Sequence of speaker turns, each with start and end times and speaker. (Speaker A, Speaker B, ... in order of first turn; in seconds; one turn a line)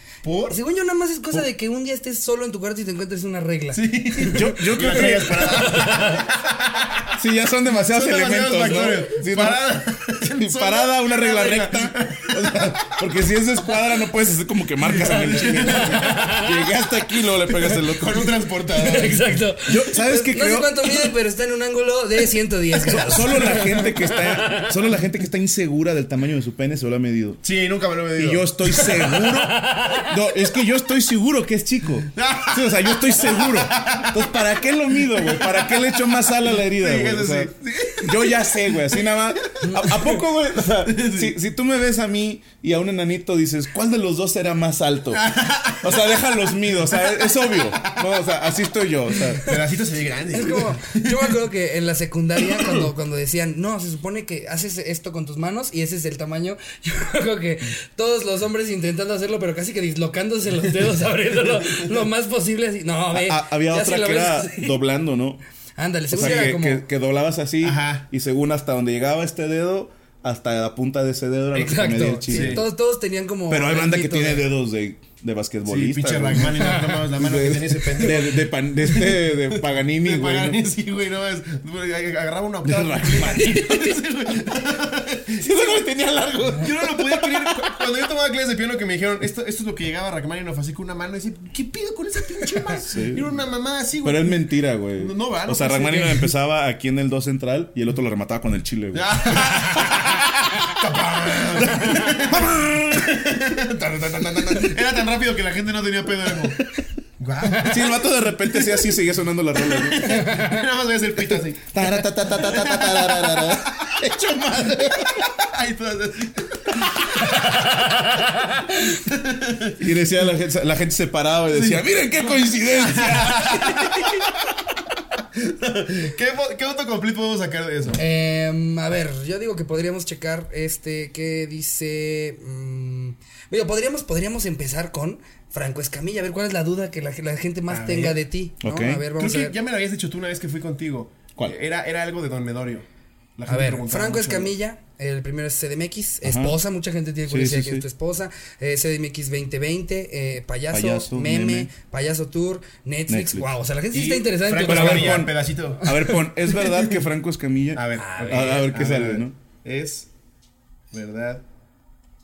Speaker A: 0.2-0.6
Speaker B: 0.5-6.2
Speaker A: 3.7-7.1
Speaker C: 4.3-5.6
Speaker C: 7.1-9.7
Speaker A: 7.8-12.9
Speaker C: 10.2-18.3
Speaker A: 14.8-16.4
Speaker B: 15.4-16.5
Speaker A: 17.5-19.4
Speaker B: 18.8-24.7
Speaker C: 19.6-21.0
Speaker C: 22.8-27.4
Speaker A: 27.4-28.5
Speaker C: 28.2-49.5
Speaker B: 29.6-30.0
Speaker A: 32.1-34.3
Speaker A: 35.1-35.8
Speaker A: 36.5-38.4
Speaker B: 39.6-40.0
Speaker A: 40.8-41.3
Speaker A: 45.1-46.0
Speaker A: 46.9-48.0
Speaker A: 49.3-51.3
Speaker B: 50.3-64.8
Speaker A: 52.5-52.8
Speaker C: 63.1-65.4
Speaker B: 65.8-66.8
Speaker C: 66.1-72.6
Speaker A: 66.1-66.5
Speaker A: 67.6-68.0
Speaker B: 71.5-74.5
Speaker A: 72.3-72.6
Speaker C: 73.5-80.6
Speaker A: 75.7-85.5
Speaker C: 82.6-83.9
Speaker B: 83.3-83.8
Speaker C: 85.4-87.7
Speaker A: 86.6-96.3
Speaker C: 92.9-93.3
Speaker C: 94.0-100.2
Speaker A: 98.9-106.6
Speaker C: 101.5-103.1
Speaker C: 103.8-104.8
Speaker A: 107.2-109.0
Speaker C: 107.6-110.2
Speaker A: 109.6-114.1
Speaker B: 110.0-110.6
Speaker C: 111.7-115.3
Speaker A: 114.6-117.3
Speaker B: 117.2-118.9
Speaker A: 118.9-119.7
Speaker C: 119.8-124.2
Speaker A: 121.5-121.8
Speaker A: 122.8-124.3
Speaker A: 125.3-128.0
Speaker B: 128.0-139.5
Speaker A: 137.7-138.2
Speaker C: 138.6-139.0
Speaker A: 139.2-142.8
Speaker A: 143.4-144.5
Speaker B: 143.5-155.3
Speaker C: 146.2-146.6
Speaker C: 147.3-147.8
Speaker C: 150.7-151.7
Speaker C: 153.1-153.4
Speaker A: 153.9-155.9
Speaker C: 154.6-159.3
Speaker A: 156.5-156.9
Speaker A: 157.7-160.1
Speaker B: 157.9-158.6
Speaker A: 160.9-161.4